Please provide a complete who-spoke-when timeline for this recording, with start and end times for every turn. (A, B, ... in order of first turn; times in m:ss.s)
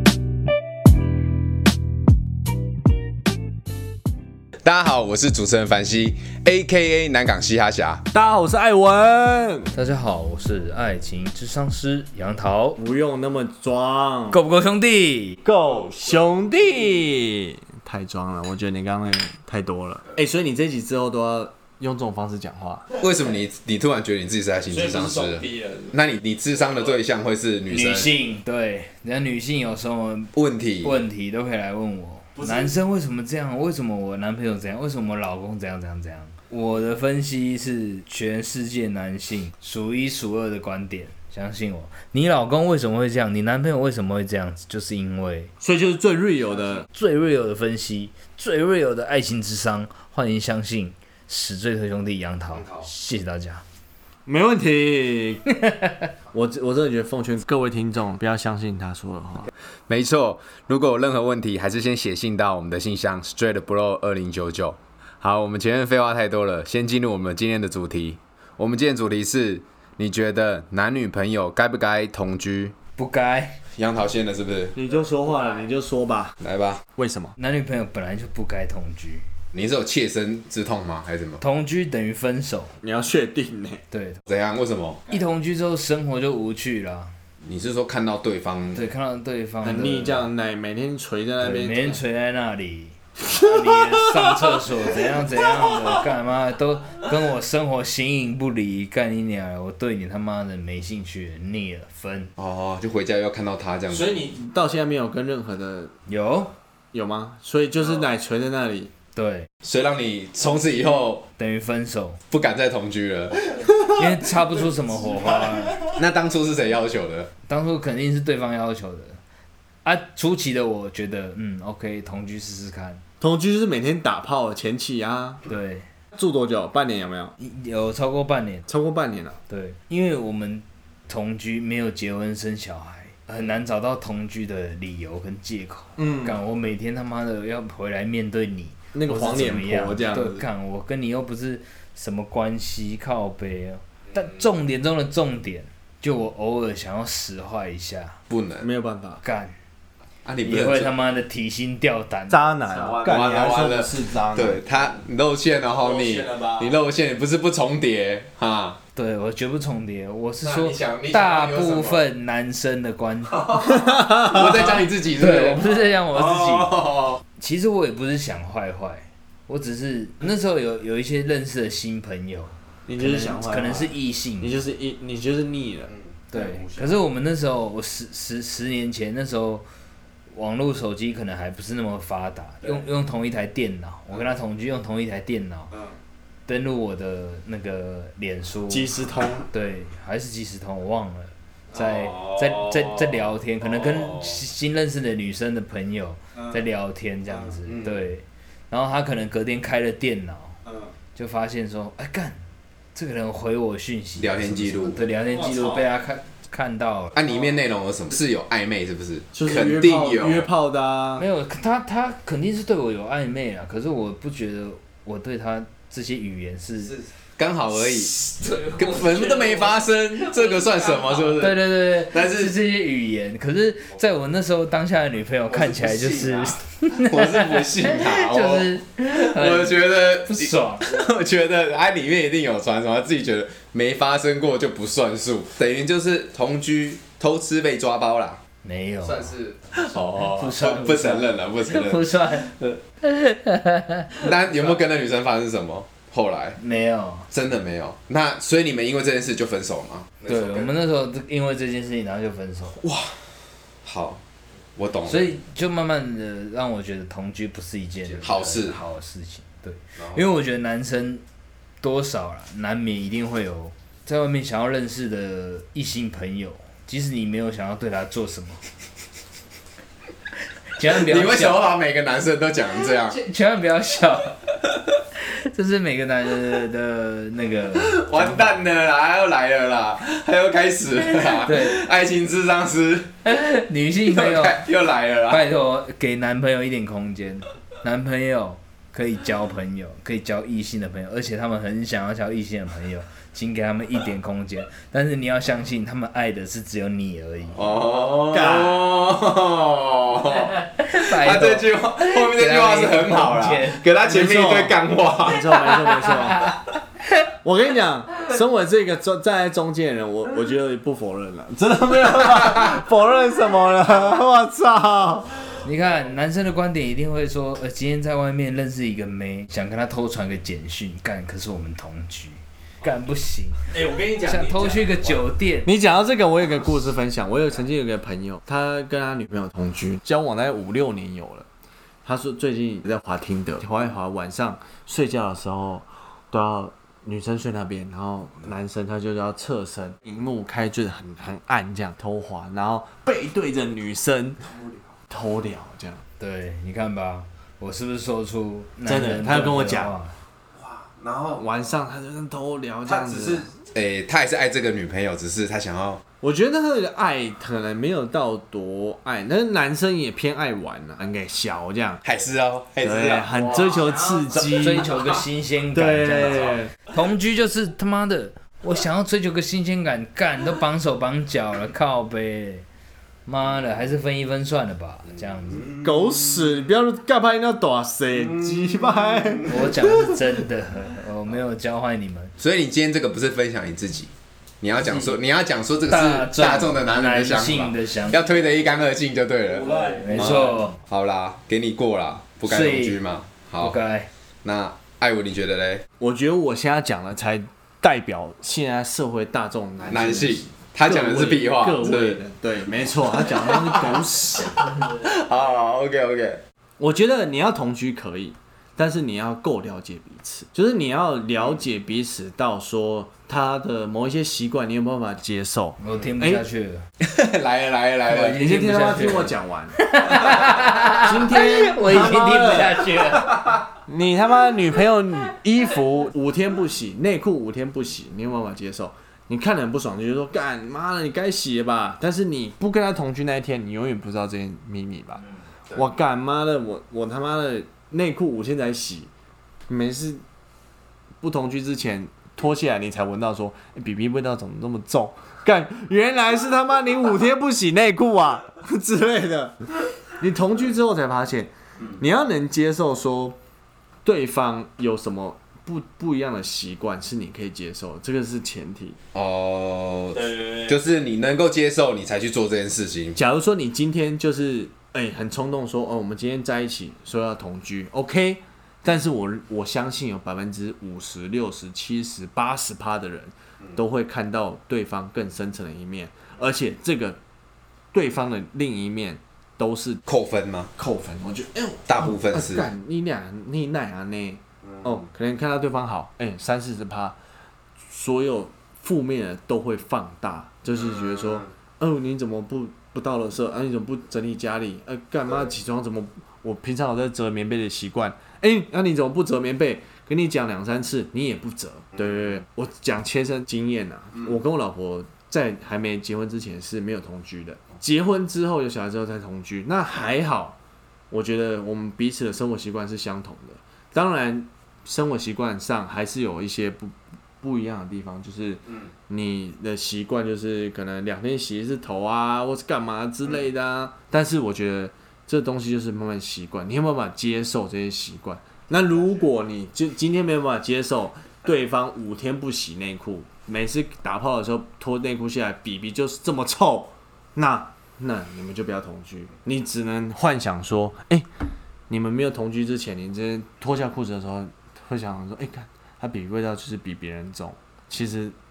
0:04.6-0:08.0 A
0:08.1-0:09.7 B
0:09.7-0:12.8 C
0:12.8-0:14.4 B
0:14.3-0:15.4 C
0:15.4-0:23.0 B
0:22.9-0:28.1 A
0:24.8-0:25.9 B
0:27.7-0:30.3 C
0:30.3-0:31.0 A
0:30.8-0:45.5 C
0:32.4-0:32.7 B
0:45.6-0:46.8 B
0:46.9-0:53.6 C
0:52.6-0:52.9 A
0:54.2-0:55.4 B
0:55.5-0:56.1 C
0:56.3-0:59.5 B
0:59.9-1:12.8 A
1:13.0-1:13.6 C
1:13.7-1:14.8 A
1:14.7-1:16.4 B
1:16.4-1:16.8 A
1:17.0-1:17.3 B
1:17.4-1:19.2 C
1:19.5-1:21.4 A
1:21.4-1:22.7 C
1:22.8-1:23.8 B
1:23.9-1:24.2 C
1:24.3-1:25.0 A
1:25.1-1:27.1 C
1:27.4-1:28.8 A
1:28.7-1:30.3 C
1:29.6-1:32.0 B
1:31.4-1:42.3 C
1:33.2-1:34.6 B
1:42.4-1:44.2 A
1:43.9-1:45.9 B
1:46.1-1:46.5 C
1:46.9-1:48.9 B
1:49.2-1:49.5 C
1:49.6-1:51.2 A
1:51.4-1:52.2 C
1:52.3-1:53.4 A
1:53.6-1:53.9 B
1:54.0-1:56.0 C
1:55.9-1:57.3 A
1:57.5-1:59.2 C
1:59.8-2:03.0 C
2:03.2-2:05.4 B
2:05.4-2:05.9 C
2:06.1-2:07.3 B
2:07.4-2:08.7 C
2:08.7-2:09.4 B
2:09.5-2:28.2 C
2:16.0-2:16.4 B
2:18.9-2:20.4 B
2:28.3-2:28.7 A
2:28.6-2:29.2 B
2:29.2-2:29.6 C
2:30.2-2:30.9 A
2:30.4-2:32.5 C
2:32.3-2:34.6 B
2:32.7-2:38.8 A
2:36.2-2:36.5 B
2:39.0-2:43.6 C
2:40.4-2:42.0 A
2:43.3-2:47.2 A
2:44.0-2:44.3 B
2:45.2-2:54.5 C
2:52.8-2:57.0 B
2:56.3-2:59.6 C
3:00.3-3:05.7 C
3:06.5-3:08.9 C
3:08.7-3:09.5 B
3:09.5-3:20.6 C
3:11.8-3:13.1 A
3:13.8-3:14.4 A
3:17.6-3:18.0 A
3:21.2-3:22.4 C
3:22.9-3:27.2 C
3:24.2-3:25.0 A
3:25.3-3:25.9 B
3:27.1-3:30.5 A
3:29.3-3:31.2 B
3:31.2-3:37.0 C
3:36.9-3:38.1 A
3:38.0-3:39.7 C
3:38.8-3:42.6 A
3:41.3-3:50.9 C
3:45.5-3:58.4 A
3:58.6-4:04.3 C
3:59.0-4:02.8 A
4:04.2-4:06.6 A
4:06.6-4:07.3 C
4:07.3-4:10.7 A
4:10.2-4:12.8 C
4:12.8-4:14.2 A
4:14.8-4:15.3 A
4:15.0-4:21.2 C
4:18.1-4:18.8 A
4:20.0-4:20.2 A
4:21.8-4:28.6 C
4:30.8-4:31.7 C
4:30.9-4:33.2 A
4:33.0-4:34.3 C
4:35.2-4:38.6 C
4:37.7-4:43.1 A
4:41.3-4:41.8 C
4:43.2-4:44.6 C
4:44.0-4:45.5 A
4:45.3-4:57.7 C
4:57.5-5:05.6 A
4:58.3-4:58.8 B
5:00.6-5:03.8 C
5:04.0-5:06.5 B
5:05.7-5:06.6 C
5:07.4-5:15.6 B
5:15.6-5:25.7 C
5:23.7-5:24.7 B
5:25.6-5:31.4 B
5:32.0-5:44.5 B
5:45.1-5:46.0 B
5:46.2-5:50.1 C
5:48.8-5:49.9 B
5:50.6-5:51.4 A
5:51.4-5:53.5 B
5:52.8-5:56.0 A
5:56.2-6:02.0 B
6:02.0-6:04.2 A
6:02.8-6:04.9 B
6:04.3-6:12.6 C
6:05.7-6:06.7 B
6:13.2-6:15.7 C
6:15.8-6:20.2 B
6:19.4-6:22.3 C
6:22.4-6:33.8 A
6:24.8-6:25.1 C
6:25.9-6:28.2 C
6:29.5-6:30.5 B
6:29.7-6:30.8 C
6:32.4-6:33.0 C
6:33.6-6:34.1 C
6:34.4-6:35.8 A
6:36.0-6:44.6 B
6:39.9-6:42.2 A
6:43.2-6:46.4 A
6:46.8-6:56.4 B
6:55.8-6:56.8 C
6:57.0-6:58.4 A
6:58.1-7:03.4 C
6:58.3-6:59.9 B
7:00.9-7:03.0 B
7:03.3-7:03.6 A
7:03.9-7:19.1 B
7:19.7-7:20.2 B
7:21.2-7:29.6 B
7:30.2-7:33.4 B
7:34.0-7:39.0 B
7:39.1-7:43.2 A
7:43.2-7:57.2 B
7:57.9-8:00.0 B
8:00.0-8:00.7 A
8:00.8-8:07.2 B
8:01.9-8:02.7 A
8:07.9-8:30.6 B
8:31.1-9:01.2 B
9:01.9-9:08.3 B